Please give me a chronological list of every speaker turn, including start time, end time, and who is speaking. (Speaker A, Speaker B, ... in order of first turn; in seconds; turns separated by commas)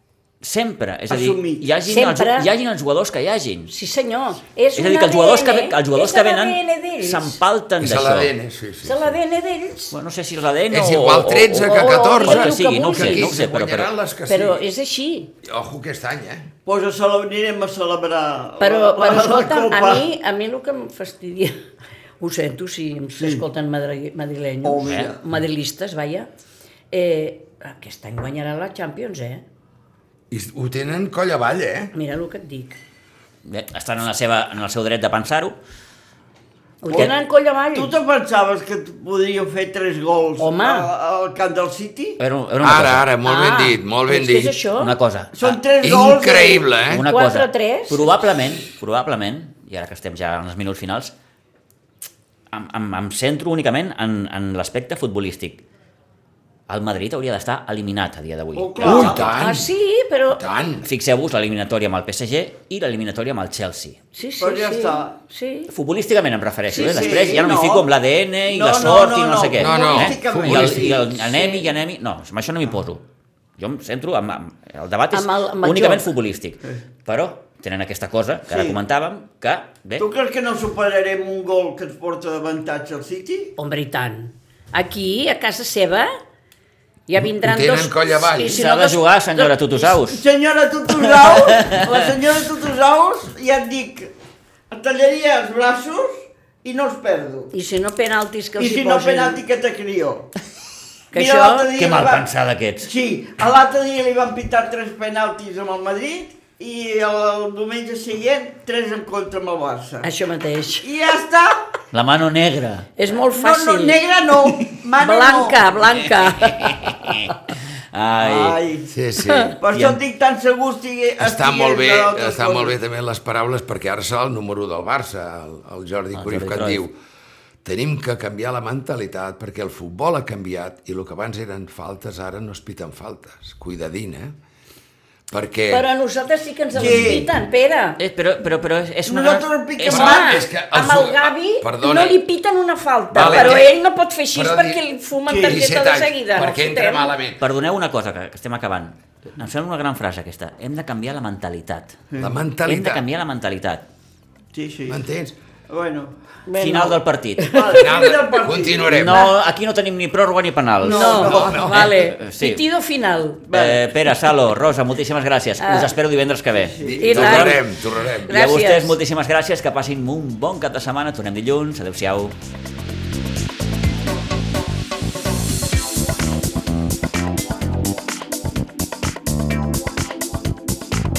Speaker A: 0.4-3.7, Speaker B: 1.1-1.6, Speaker C: 1.8-2.5, Speaker C: 3.7-7.4, Speaker A: 4.8-8.3, Speaker D: 7.8-9.1, Speaker C: 8.8-9.9, Speaker A: 9.9-13.9, Speaker D: 10.7-14.6, Speaker C: 11.6-13.3, Speaker C: 14.3-15.3, Speaker D: 15.4-16.5, Speaker B: 16.7-20.1, Speaker C: 18.6-21.6, Speaker C: 22.2-26.3, Speaker B: 23.2-23.4, Speaker B: 24.6-25.2, Speaker A: 24.8-25.1, Speaker C: 26.9-29.4, Speaker D: 30.3-31.9, Speaker C: 31.9-32.8, Speaker A: 33.5-35.5, Speaker C: 36.8-38.0, Speaker B: 37.7-42.2, Speaker C: 40.4-40.9, Speaker A: 42.2-43.1, Speaker D: 42.6-44.6, Speaker C: 43.2-45.0, Speaker A: 44.8-45.6, Speaker B: 45.3-46.6, Speaker D: 45.8-47.0, Speaker A: 46.9-51.1, Speaker C: 47.0-48.2, Speaker A: 52.5-55.6, Speaker A: 56.7-59.5, Speaker B: 58.5-59.3, Speaker D: 58.8-59.7, Speaker C: 59.3-60.4, Speaker D: 60.3-60.9, Speaker A: 60.9-64.0, Speaker C: 64.1-65.7, Speaker B: 64.4-65.2, Speaker A: 65.7-73.0, Speaker B: 66.7-67.9, Speaker C: 66.7-67.4, Speaker B: 68.5-71.5, Speaker D: 69.6-71.0, Speaker C: 71.3-71.6, Speaker A: 73.6-80.1, Speaker C: 75.1-76.1, Speaker B: 78.5-78.8, Speaker B: 80.0-83.5, Speaker C: 83.6-86.1, Speaker C: 87.1-89.5, Speaker D: 87.2-88.6, Speaker A: 88.5-90.2, Speaker B: 90.0-94.1, Speaker A: 90.9-92.1, Speaker B: 94.7-97.5, Speaker C: 97.5-99.4, Speaker B: 98.6-100.3, Speaker B: 101.1-102.3, Speaker C: 101.1-101.7, Speaker A: 101.8-102.9, Speaker B: 102.8-110.1, Speaker C: 110.0-110.9, Speaker B: 110.8-111.6, Speaker A: 111.9-112.9, Speaker C: 113.0-114.0, Speaker B: 113.2-115.7, Speaker C: 115.0-117.3, Speaker A: 116.3-117.3, Speaker A: 117.9-118.6, Speaker B: 118.2-118.9, Speaker D: 118.9-119.5, Speaker C: 119.2-119.6, Speaker B: 119.6-122.8, Speaker A: 119.7-120.0, Speaker D: 121.2-127.0, Speaker A: 126.1-126.8, Speaker D: 127.6-134.3, Speaker D: 135.3-135.9, Speaker C: 135.7-138.0, Speaker B: 136.8-137.3, Speaker A: 138.0-140.1, Speaker B: 139.1-140.4, Speaker D: 139.9-142.2, Speaker C: 139.9-147.1, Speaker D: 143.1-143.7, Speaker A: 143.2-143.4, Speaker D: 144.3-144.8, Speaker B: 145.3-145.8, Speaker D: 145.4-147.4, Speaker A: 147.4-152.0, Speaker B: 152.1-152.4, Speaker D: 152.2-153.0, Speaker A: 152.7-153.8, Speaker B: 154.5-155.0, Speaker D: 154.9-155.3, Speaker B: 155.7-156.1, Speaker C: 156.5-158.0, Speaker A: 156.6-157.6, Speaker B: 157.5-159.2, Speaker D: 157.8-159.3, Speaker A: 158.9-162.6, Speaker B: 160.8-161.6, Speaker C: 160.8-163.5, Speaker D: 161.2-161.9, Speaker B: 163.5-164.1, Speaker A: 163.5-167.6, Speaker C: 165.6-165.9, Speaker B: 166.5-167.0, Speaker D: 166.8-168.4, Speaker C: 167.0-167.6, Speaker A: 168.2-172.3, Speaker C: 168.3-169.0